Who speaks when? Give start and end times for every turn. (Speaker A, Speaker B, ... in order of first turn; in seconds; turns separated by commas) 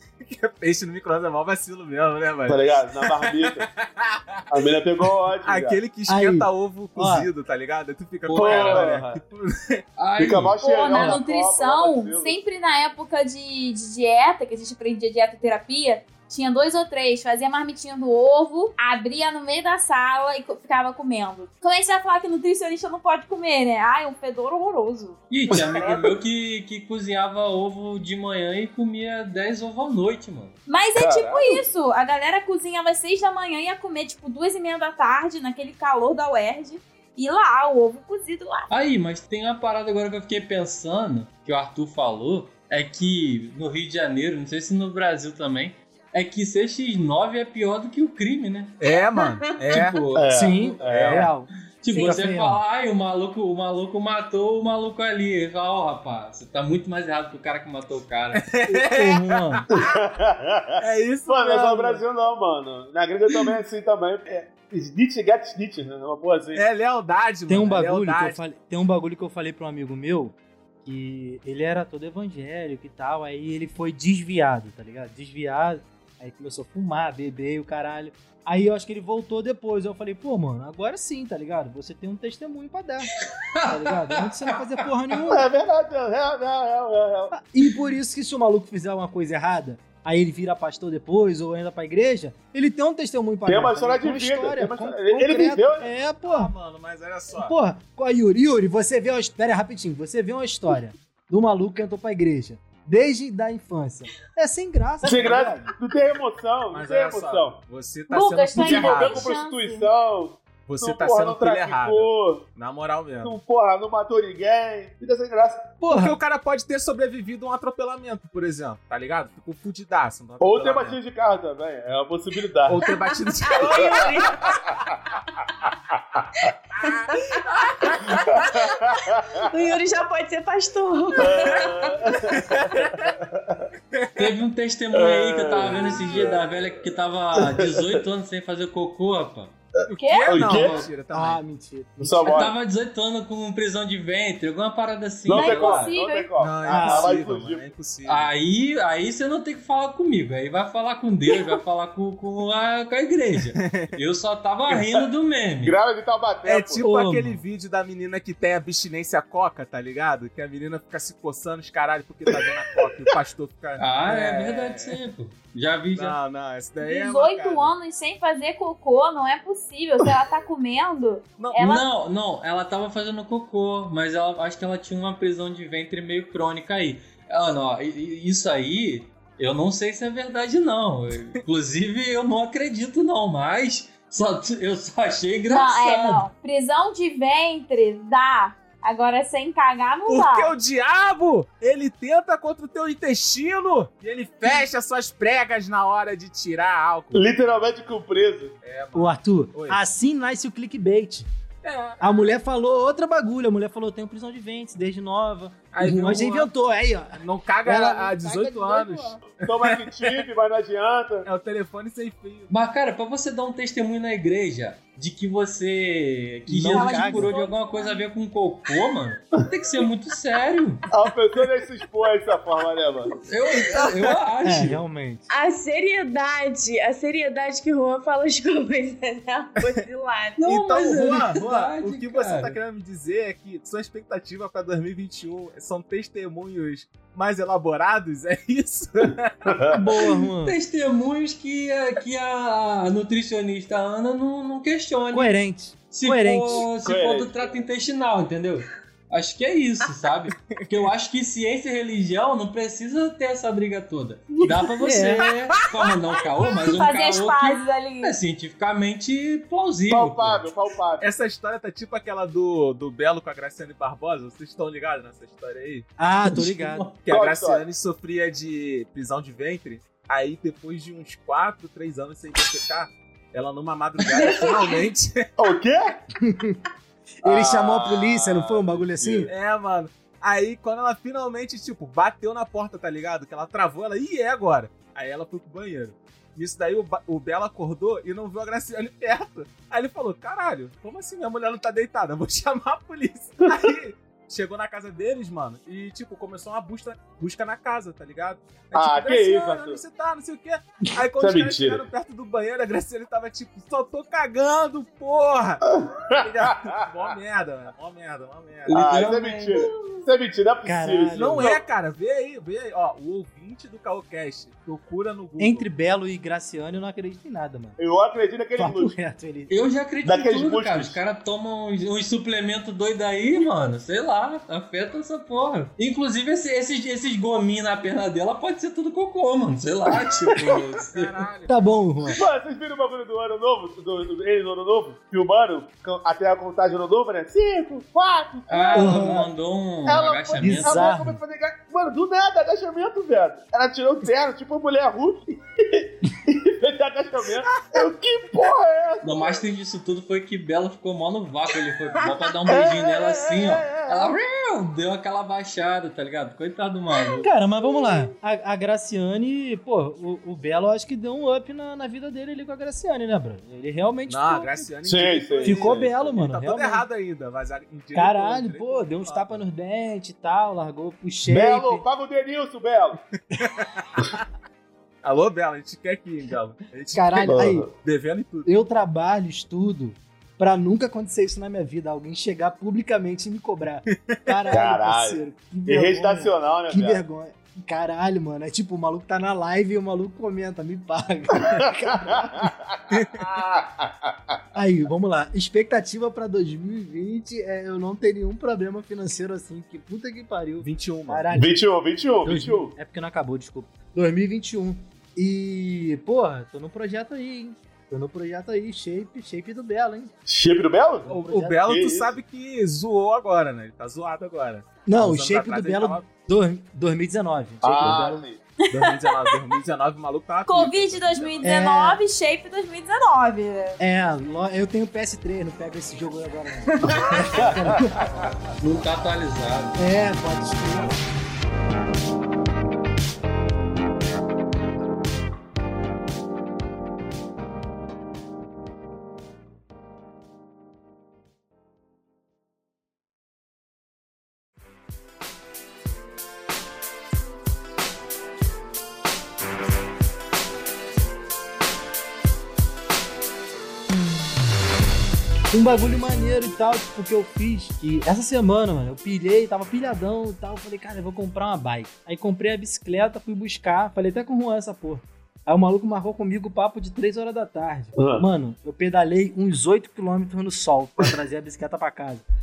Speaker A: 0.2-9.8, Speaker B: 2.5-3.7, Speaker B: 4.5-5.8, Speaker C: 6.1-7.3, Speaker D: 8.2-8.9, Speaker B: 8.3-9.2, Speaker D: 10.0-10.6, Speaker B: 10.2-12.4, Speaker E: 10.6-25.2, Speaker D: 25.3-30.6, Speaker B: 25.5-25.9, Speaker E: 30.7-38.7, Speaker B: 30.9-31.6, Speaker D: 38.7-48.8, Speaker A: 48.8-50.3, Speaker D: 49.7-50.3, Speaker B: 50.1-51.3, Speaker C: 50.3-52.6, Speaker A: 50.8-51.3, Speaker D: 51.8-58.4, Speaker A: 58.3-59.9, Speaker C: 58.7-59.7, Speaker B: 59.7-66.6, Speaker A: 60.8-62.0, Speaker A: 66.5-68.4, Speaker C: 67.5-83.1, Speaker D: 83.5-84.6, Speaker C: 83.6-85.5, Speaker B: 85.3-87.3, Speaker C: 87.3-96.5, Speaker B: 93.5-95.9, Speaker A: 96.2-97.5, Speaker C: 97.3-105.7, Speaker B: 105.0-107.6, Speaker A: 106.7-109.3, Speaker E: 108.1-109.9, Speaker B: 108.5-112.5, Speaker A: 110.7-113.3, Speaker B: 113.2-115.8, Speaker C: 115.8-116.1, Speaker A: 115.9-121.0, Speaker B: 120.4-122.9, Speaker A: 122.7-124.6, Speaker F: 123.4-124.4, Speaker B: 124.5-124.8, Speaker A: 126.8-128.4, Speaker F: 126.8-128.6, Speaker B: 128.1-129.4, Speaker F: 129.4-132.0, Speaker B: 131.2-133.7, Speaker A: 132.3-133.1, Speaker A: 133.9-134.3, Speaker D: 134.2-139.5, Speaker B: 134.9-136.6, Speaker B: 137.4-137.9, Speaker A: 139.9-141.4, Speaker E: 140.0-140.5, Speaker B: 140.3-140.9, Speaker C: 141.1-142.3, Speaker B: 142.0-142.5, Speaker D: 142.2-145.9, Speaker B: 145.3-147.7, Speaker E: 145.3-146.3, Speaker A: 146.4-148.3, Speaker C: 146.7-147.1, Speaker D: 148.1-155.8, Speaker A: 153.5-153.9, Speaker B: 155.6-156.8, Speaker A: 156.4-165.0, Speaker D: 156.8-157.3, Speaker D: 163.8-166.2, Speaker A: 165.9-167.7, Speaker E: 166.8-171.8, Speaker D: 171.6-186.2, Speaker E: 185.5-190.5, Speaker A: 190.1-197.3, Speaker B: 197.1-198.5, Speaker A: 198.6-199.8, Speaker C: 198.9-201.3, Speaker A: 201.6-202.2, Speaker C: 202.0-209.2, Speaker A: 205.7-206.5, Speaker A: 207.2-210.2, Speaker B: 209.4-211.3, Speaker A: 211.2-212.5, Speaker D: 212.5-220.8, Speaker C: 216.5-217.3, Speaker E: 216.7-218.0, Speaker B: 220.9-223.2, Speaker D: 223.2-224.8, Speaker A: 223.7-224.1, Speaker C: 224.4-225.3, Speaker F: 225.3-230.4, Speaker D: 230.4-232.6, Speaker A: 230.4-239.7, Speaker B: 239.5-239.8, Speaker C: 239.7-240.5, Speaker D: 240.4-245.3, Speaker C: 245.1-246.6, Speaker D: 245.9-260.5, Speaker B: 246.8-247.6, Speaker A: 250.5-250.9, Speaker C: 254.8-255.3, Speaker E: 256.6-258.1, Speaker B: 259.9-261.1, Speaker A: 261.0-265.9, Speaker C: 266.0-266.9, Speaker D: 266.3-266.9, Speaker A: 267.0-275.3, Speaker B: 267.1-267.6, Speaker B: 275.4-276.0, Speaker C: 276.2-276.6, Speaker C: 277.2-279.3, Speaker B: 277.2-279.3, Speaker A: 279.2-308.8, Speaker B: 298.7-299.8, Speaker B: 301.2-301.8, Speaker B: 305.6-306.7, Speaker D: 308.6-309.7, Speaker B: 308.7-311.6, Speaker C: 310.6-311.5, Speaker A: 311.1-315.7, Speaker C: 315.4-317.8, Speaker B: 317.8-318.9, Speaker C: 318.6-319.5, Speaker D: 319.5-331.2, Speaker B: 320.0-321.0, Speaker A: 330.5-331.5, Speaker C: 331.5-332.2, Speaker B: 332.1-339.3, Speaker D: 338.5-340.8, Speaker C: 338.7-339.3, Speaker B: 339.9-349.4, Speaker C: 340.4-341.2, Speaker D: 349.0-357.3, Speaker B: 352.5-354.1, Speaker C: 357.2-364.7, Speaker A: 364.1-369.4, Speaker B: 364.8-365.9, Speaker C: 365.4-366.9, Speaker C: 367.9-371.8, Speaker B: 371.3-373.0, Speaker A: 373.3-374.2, Speaker A: 375.0-378.5, Speaker C: 376.9-377.7, Speaker B: 377.2-377.7, Speaker C: 378.4-392.5, Speaker A: 383.9-384.4, Speaker B: 384.5-387.0, Speaker B: 391.5-394.1, Speaker A: 392.9-393.4, Speaker C: 394.5-401.6, Speaker A: 400.6-401.3, Speaker B: 401.3-402.7, Speaker C: 402.2-410.1, Speaker B: 410.3-412.1, Speaker C: 411.1-411.6, Speaker A: 411.1-416.1, Speaker C: 414.9-418.2, Speaker B: 417.6-418.4, Speaker E: 418.6-419.4, Speaker A: 418.7-421.4, Speaker E: 420.5-423.8, Speaker C: 421.4-422.0, Speaker C: 423.8-428.0, Speaker B: 426.9-428.3, Speaker D: 428.6-429.8, Speaker C: 429.8-431.0, Speaker C: 455.5-472.2, Speaker B: 467.9-468.2